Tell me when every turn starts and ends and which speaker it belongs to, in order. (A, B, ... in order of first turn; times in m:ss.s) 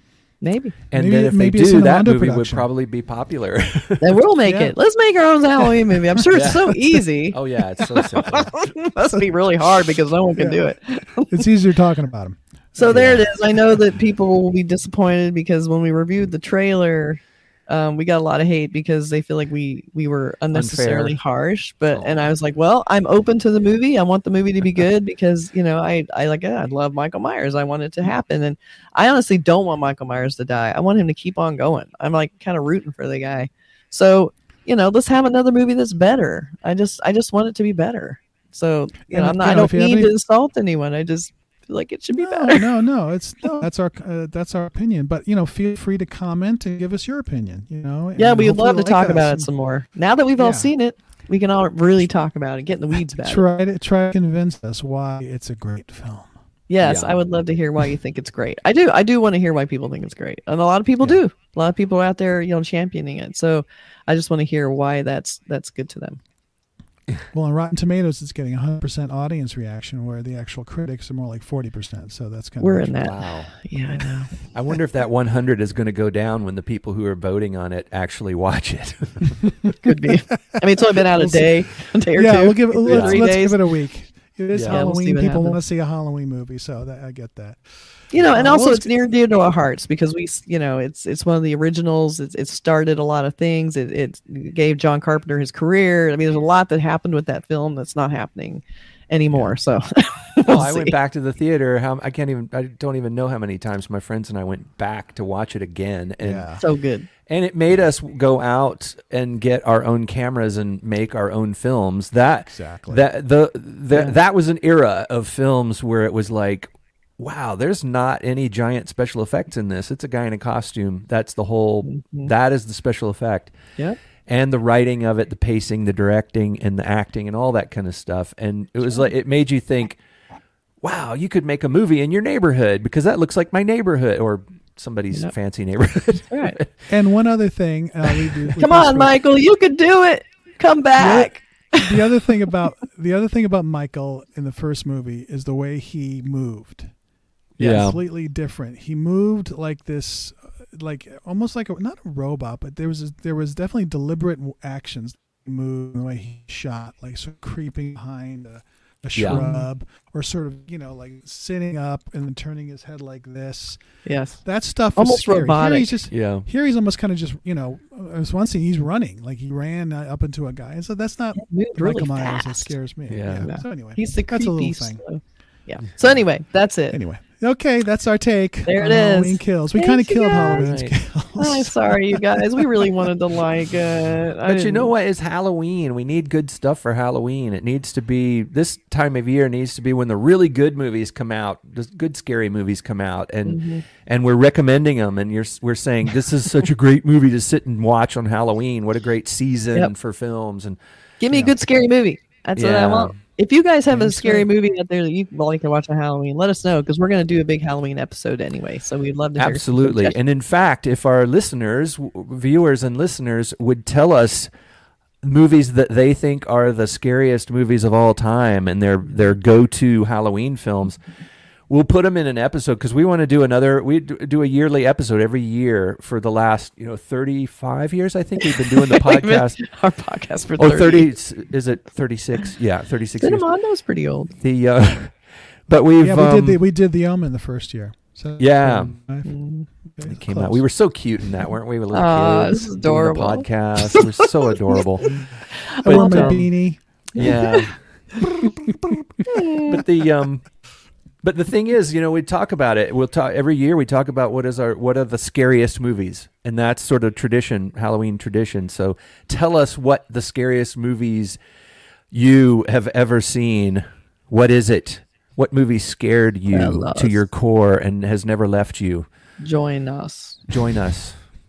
0:00.4-0:00.7 A
0:00.9-0:04.1 B
0:00.9-0:02.7 C
0:04.0-0:11.3 A
0:04.4-0:04.7 C
0:06.3-0:08.5 B
0:10.4-0:10.6 C
0:11.2-0:12.4 C
0:12.8-0:42.7 A
0:12.8-0:13.2 B
0:20.5-0:21.2 B
0:21.9-0:22.3 B
0:39.1-0:40.1 C
0:42.1-0:49.5 C
0:48.2-0:53.4 A
0:50.4-0:50.7 C
0:53.2-0:56.3 C
0:56.7-1:06.2 A
0:56.8-0:57.2 B
1:07.3-1:13.0 C
1:12.6-1:14.3 A
1:13.0-1:13.6 B
1:14.5-1:19.4 B
1:19.8-1:23.6 A
1:20.5-1:21.5 C
1:22.1-1:27.6 C
1:22.9-1:23.3 B
1:24.5-1:24.8 B
1:24.7-1:25.6 A
1:28.1-1:40.9 A
1:28.3-1:28.9 C
1:40.5-1:46.6 B
1:46.2-1:46.6 C
1:46.6-1:47.1 A
1:47.3-2:03.5 B
1:52.5-1:53.0 C
2:01.8-2:02.3 A
2:04.2-2:10.0 B
2:10.8-2:16.7 B
2:16.3-2:16.6 A
2:16.9-2:19.1 C
2:18.6-2:22.0 A
2:21.0-2:26.9 C
2:27.6-2:28.0 B
2:27.6-2:43.8 C
2:39.2-2:39.4 B
2:39.3-2:39.7 A
2:44.0-2:44.4 A
2:44.4-2:55.0 C
2:45.0-2:45.9 A
2:46.1-2:46.5 B
2:51.4-2:52.7 A
2:53.1-2:53.5 B
2:53.4-2:57.0 A
2:56.9-3:02.9 C
2:58.6-3:00.8 A
3:00.6-3:00.9 B
3:01.4-3:04.9 A
3:04.4-3:20.8 B
3:13.4-3:13.8 A
3:21.2-3:30.1 A
3:22.6-3:23.2 B
3:23.9-3:24.4 C
3:29.4-3:34.5 B
3:35.2-3:41.0 B
3:41.7-3:49.7 B
3:48.4-3:51.1 A
3:50.6-3:53.4 B
3:53.2-3:54.3 A
3:54.4-3:56.6 B
3:56.0-3:59.3 C
3:58.4-3:59.0 B
3:59.2-3:59.7 A
3:59.9-4:00.6 C
4:00.0-4:05.2 B
4:01.9-4:05.1 A
4:05.7-4:06.4 A
4:05.8-4:06.8 C
4:05.8-4:06.5 B
4:07.1-4:08.8 B
4:07.2-4:07.7 A
4:09.2-4:09.8 A
4:09.5-4:10.5 B
4:11.2-4:21.4 B
4:22.1-4:29.0 B
4:26.5-4:27.2 A
4:29.4-4:30.4 A
4:30.5-4:31.2 B